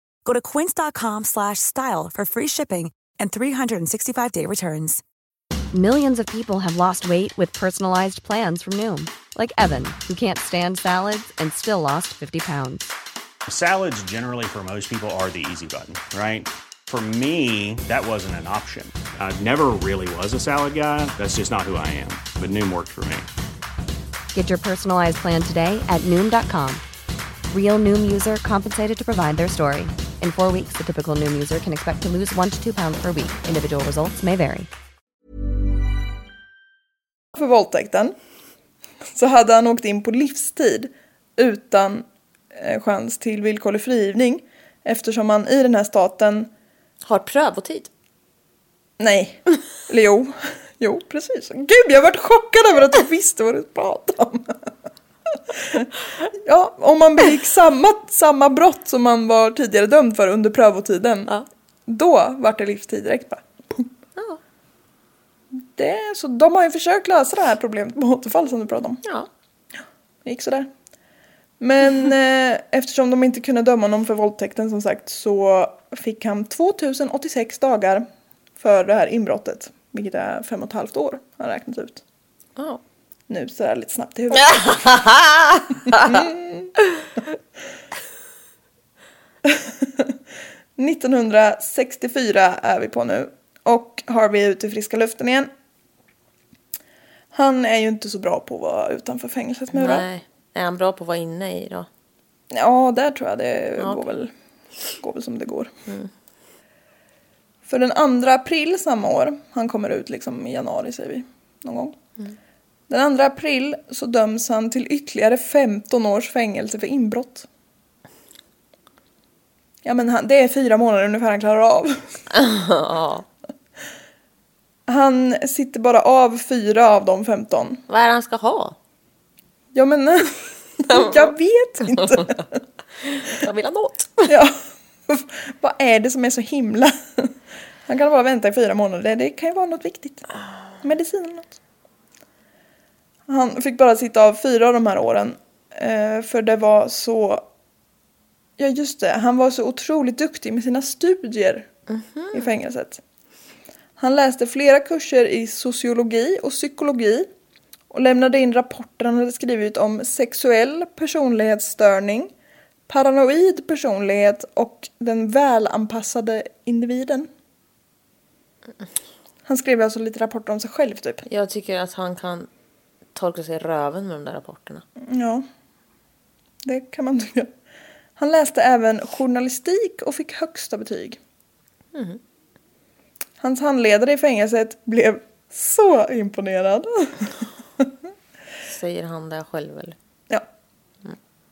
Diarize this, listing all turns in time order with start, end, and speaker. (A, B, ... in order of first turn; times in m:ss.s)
0:00.2-0:05.0 A
0:05.7-0:12.9 B
0:13.4-0:23.3 C
0:24.3-0:26.8 B
0:27.5-0:34.7 B
0:37.4-0:38.1 D
0:39.1-0:46.5 D
0:47.0-0:47.9 E
0:49.0-0:54.7 D
0:55.4-1:01.3 D
1:01.9-1:03.9 D
1:05.5-1:09.0 D
1:09.0-1:09.3 E
1:10.2-1:10.7 D
1:11.6-1:18.1 D
1:18.6-1:22.0 D
1:22.6-1:22.8 E
1:23.3-1:24.8 D
1:24.3-1:26.3 E
1:25.9-1:26.7 D
1:29.4-1:30.2 D
1:30.8-1:35.5 D
1:37.3-1:40.1 D
1:39.7-1:41.9 E
1:42.5-1:44.3 D
1:43.8-1:44.0 E
1:45.0-1:45.7 D
1:47.6-1:52.0 D
1:52.9-1:57.5 D
1:59.8-2:02.2 D
2:02.3-2:03.2 E
2:04.9-2:07.8 D
2:07.9-2:08.8 E
2:09.7-2:12.4 D
2:10.9-2:12.4 E
2:13.0-2:14.4 E
2:14.2-2:17.4 D
2:17.9-2:20.2 D
2:20.8-2:21.6 D
2:23.3-2:27.4 D
2:28.6-2:31.7 D
2:31.9-2:32.5 E
2:32.3-2:33.0 D
2:34.0-2:37.3 D
2:37.9-2:42.3 D
2:42.9-2:47.3 D
2:49.4-2:51.2 D
2:51.2-2:52.5 E
2:53.1-2:54.8 E
2:55.0-2:55.4 D
2:56.6-2:57.5 D
2:58.2-3:01.2 D
3:01.9-3:02.2 E
3:03.4-3:07.9 D
3:08.6-3:09.9 E